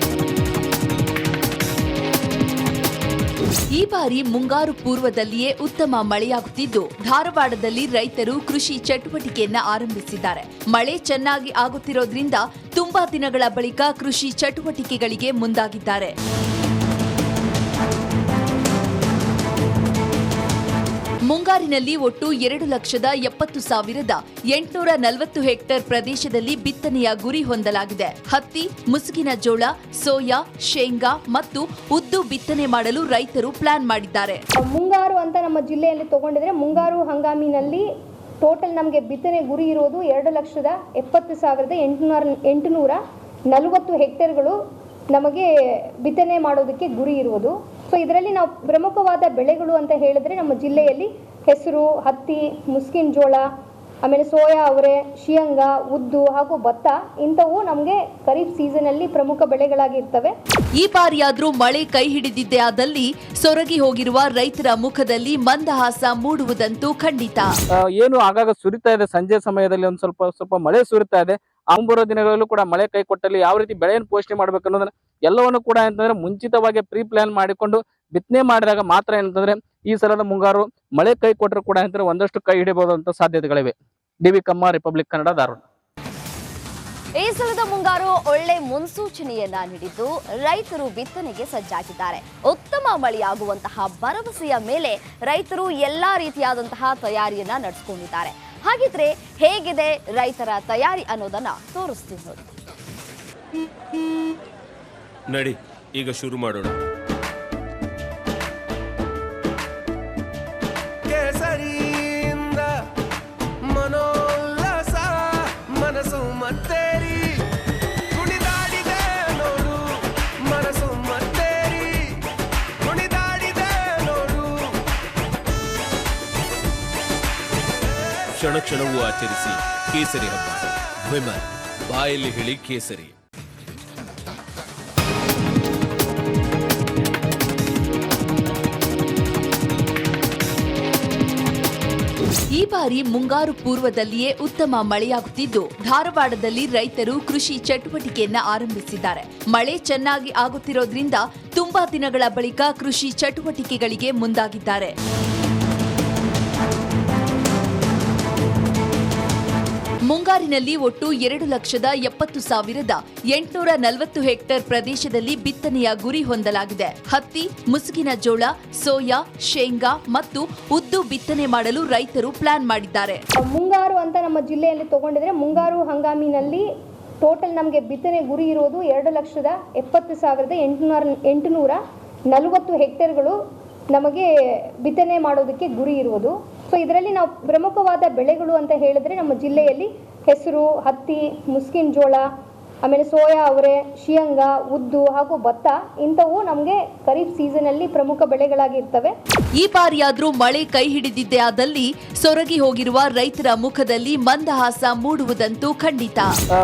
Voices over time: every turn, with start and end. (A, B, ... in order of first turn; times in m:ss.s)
0:03.7-0:16.1 A
0:21.3-0:34.4 A
0:34.6-0:37.8 B
0:38.4-0:43.0 B
0:43.5-0:44.6 B
0:45.1-0:45.5 B
0:46.0-0:53.5 B
0:54.0-1:00.3 B
1:00.8-1:07.5 A
1:08.0-1:25.6 C
1:27.2-1:42.5 D
1:45.3-1:46.8 E
1:51.0-1:52.8 F
1:53.6-1:57.5 F
1:58.1-2:02.2 F
2:02.8-2:04.8 F
2:08.3-2:13.2 E
2:22.5-2:35.0 A
2:40.1-2:53.2 A
2:53.4-2:56.6 B
2:57.2-3:01.8 B
3:02.3-3:03.4 B
3:03.9-3:04.3 B
3:04.8-3:12.2 B
3:12.8-3:19.1 B
3:19.6-3:26.3 A